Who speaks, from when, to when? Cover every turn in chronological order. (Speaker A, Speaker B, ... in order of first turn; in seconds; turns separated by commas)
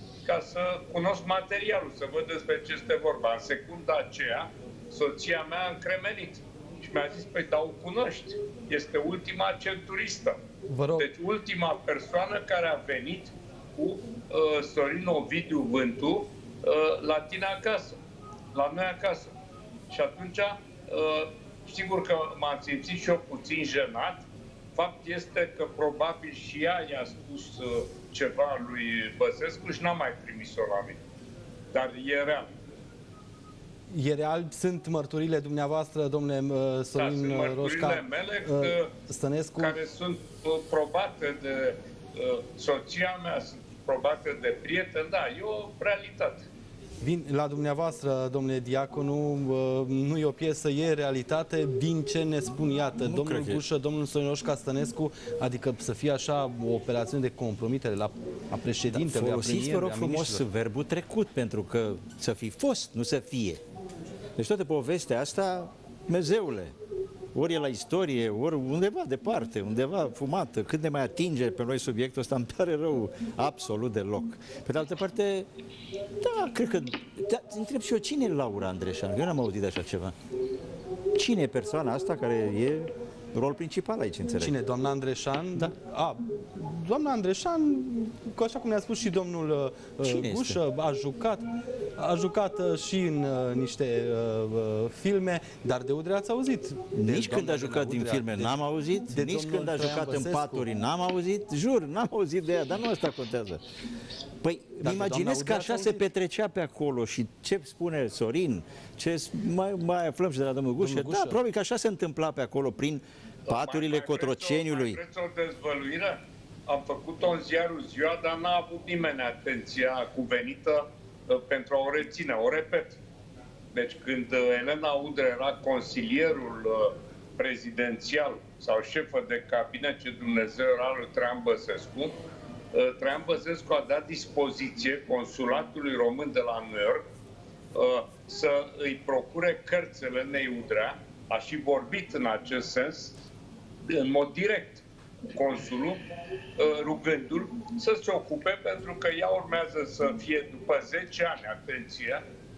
Speaker A: 0.2-10.4, Speaker B: 10.7-11.1, Speaker A: 11.0-17.9, Speaker A: 18.5-19.3, Speaker A: 19.9-31.0, Speaker A: 31.7-32.5, Speaker B: 33.9-39.8, Speaker A: 37.0-38.9, Speaker A: 39.6-46.5, Speaker B: 47.0-60.5, Speaker C: 53.0-53.6, Speaker C: 58.9-63.6, Speaker C: 64.4-66.7, Speaker C: 67.3-75.5, Speaker C: 76.2-80.1, Speaker C: 81.1-84.5, Speaker B: 84.4-100.7, Speaker C: 90.0-90.6, Speaker C: 96.9-103.6, Speaker C: 104.4-115.0, Speaker B: 104.8-106.0, Speaker B: 110.8-111.4, Speaker A: 113.5-123.0, Speaker A: 123.7-132.2, Speaker A: 132.7-137.1, Speaker A: 137.7-143.2, Speaker A: 143.9-146.0, Speaker A: 146.6-152.2